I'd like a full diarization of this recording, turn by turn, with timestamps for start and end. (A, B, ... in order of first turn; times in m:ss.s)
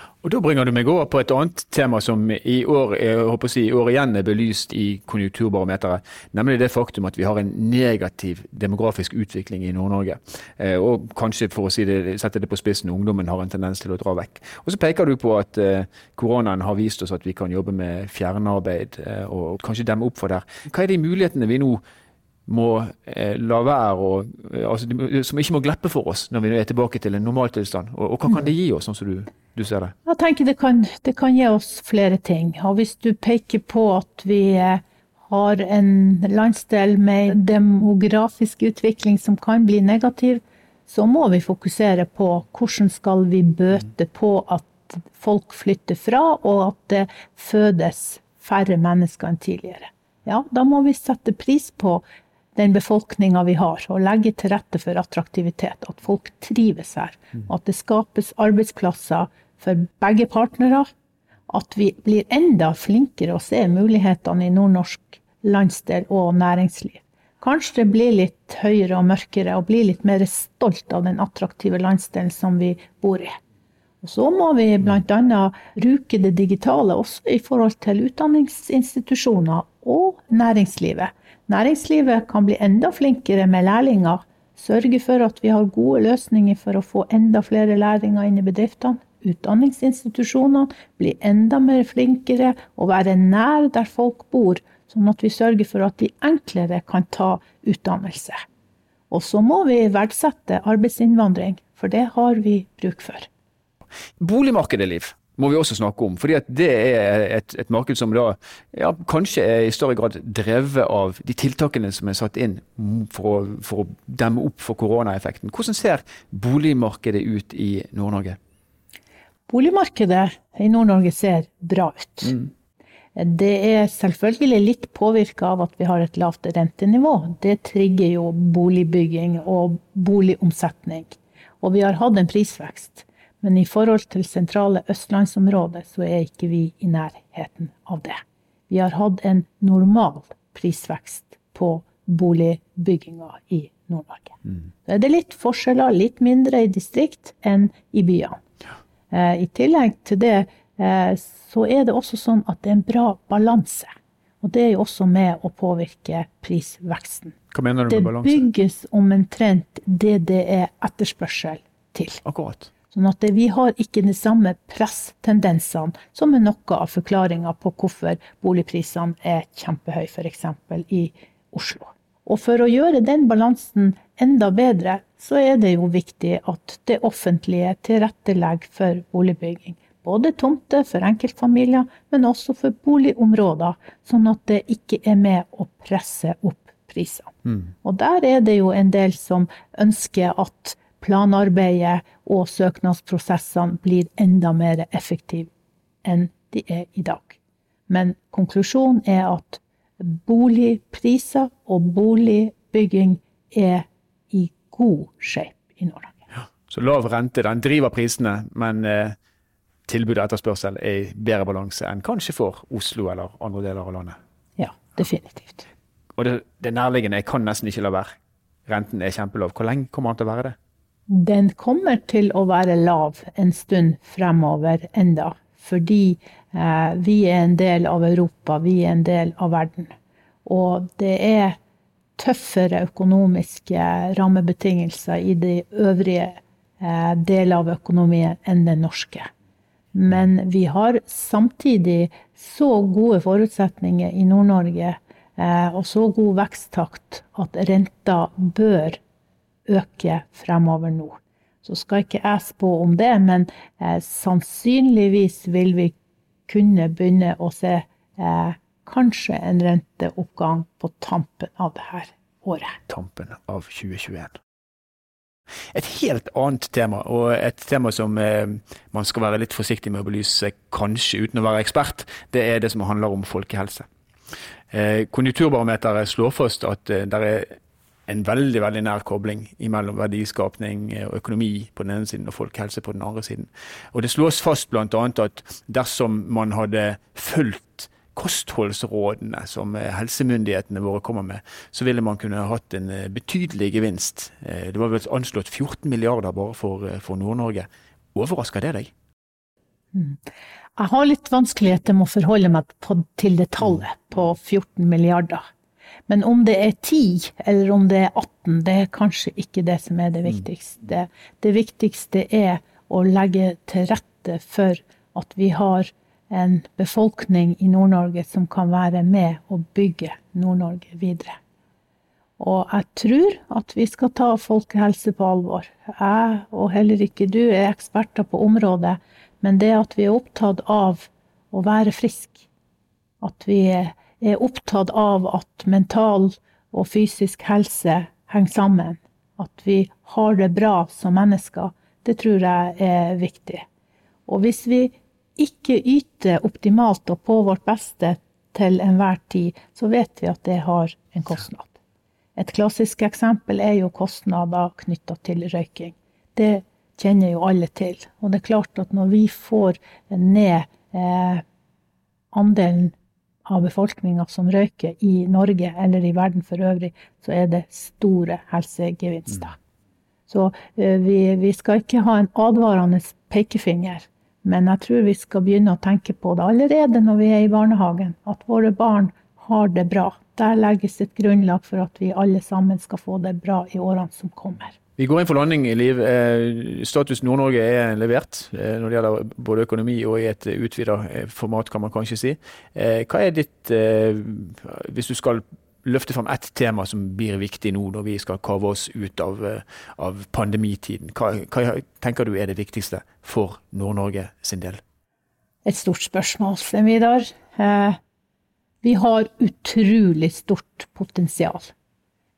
0:00.2-0:21.8 A
0:22.5-0:29.9 A
0:30.0-0:52.0 B
0:52.5-1:00.9 B
1:01.5-1:13.4 B
1:14.0-1:38.4 B
1:39.1-1:43.3 B
1:44.2-1:58.4 A
1:59.5-2:02.5 B
2:03.2-2:28.4 B
2:29.1-2:37.4 B
2:37.5-2:38.4 A
2:37.9-2:42.2 B
2:42.2-2:42.7 A
2:42.9-3:15.5 B
3:16.0-3:17.4 B
3:17.9-3:26.2 B
3:26.7-3:29.2 A
3:29.9-3:34.2 A
3:34.6-3:35.6 B
3:36.1-3:38.1 A
3:38.7-3:40.6 A
3:41.1-3:49.9 B
3:50.4-3:51.6 B
3:52.2-3:59.3 B
3:59.9-4:09.0 B
4:09.7-4:15.9 B
4:16.5-4:22.8 B
4:22.9-4:24.4 A
4:25.7-4:33.8 A
4:34.7-4:58.9 A
4:59.9-5:00.2 B
5:00.8-5:05.4 B
5:06.1-5:21.4 B
5:22.4-5:32.5 B
5:33.2-5:43.6 B
5:44.3-5:51.8 B
5:52.4-6:01.4 B
6:02.3-6:02.9 B
6:03.5-6:09.6 B
6:10.3-6:24.7 B
6:25.0-6:44.8 A
6:45.6-6:48.0 B
6:48.8-6:51.7 B